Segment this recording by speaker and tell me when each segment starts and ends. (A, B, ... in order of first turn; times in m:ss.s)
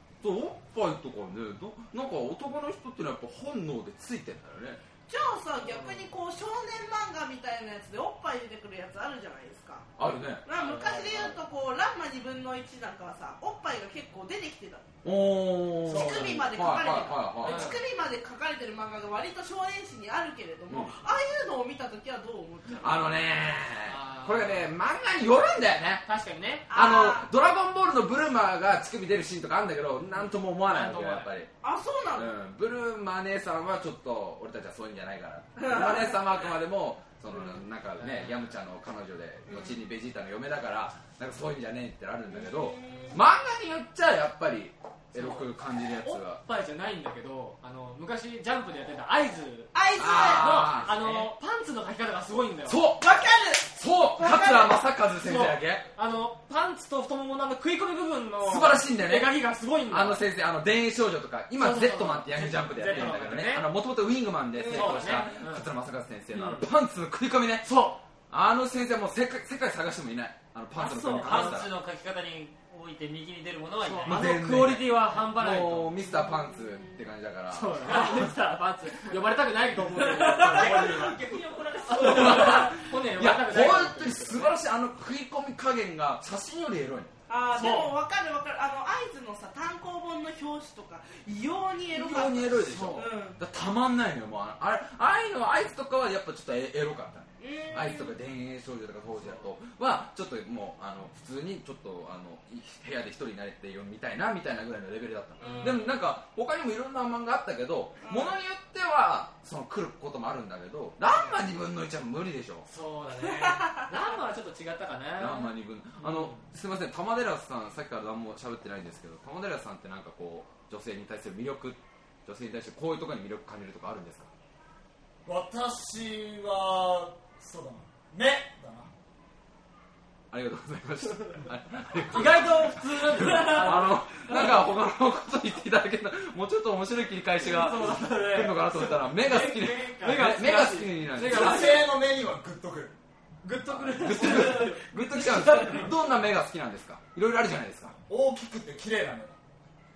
0:00.2-0:04.8 A
0:05.1-0:09.9 B
0:05.6-0:06.1 C
0:10.0-0:10.4 A
0:10.4-0:14.9 B
0:10.5-0:11.4 C
0:15.0-0:17.8 A
0:15.8-0:16.5 C
0:15.9-0:23.1 B
0:17.4-0:17.8 C
0:20.7-0:20.9 A
0:22.8-0:26.0 A
0:23.9-0:24.7 C
0:26.0-0:26.7 C
0:26.7-0:27.3 B
0:26.7-0:31.5 A
0:30.6-0:31.3 C
0:31.6-0:32.3 B
0:32.1-0:46.4 A
0:35.6-0:36.2 B
0:38.0-0:38.5 C
0:39.5-0:39.7 B
0:42.3-0:43.2 B
0:45.1-0:45.5 C
0:46.0-0:52.8 C
0:49.7-0:50.7 B
0:50.0-0:51.2 A
0:50.9-0:51.2 D
0:52.6-0:53.0 A
0:53.0-0:54.8 B
0:53.8-0:55.8 A
0:55.2-1:00.2 C
0:58.4-1:07.7 A
1:01.6-1:03.7 C
1:04.6-1:05.3 B
1:04.6-1:05.7 C
1:06.3-1:06.7 C
1:07.6-1:08.0 C
1:08.3-1:11.7 A
1:10.8-1:14.2 D
1:11.1-1:11.6 C
1:13.8-1:15.9 C
1:14.0-1:18.3 A
1:16.0-1:17.0 B
1:17.5-1:21.3 C
1:20.0-1:22.6 B
1:20.4-1:21.5 D
1:21.9-1:24.6 C
1:21.9-1:27.1 A
1:27.3-1:33.4 B
1:27.5-1:28.0 C
1:31.9-1:52.7 A
1:32.6-1:33.1 C
1:37.4-1:38.1 B
1:45.4-1:45.9 C
1:45.4-1:45.9 B
1:48.0-1:48.3 B
1:52.7-1:56.4 C
1:53.4-1:53.9 B
1:55.2-2:04.3 A
2:05.2-2:08.9 E
2:10.3-2:21.8 A
2:12.1-2:14.7 C
2:17.4-2:21.9 C
2:21.2-2:23.0 E
2:23.4-2:25.9 C
2:23.7-2:27.9 A
2:28.1-2:29.4 E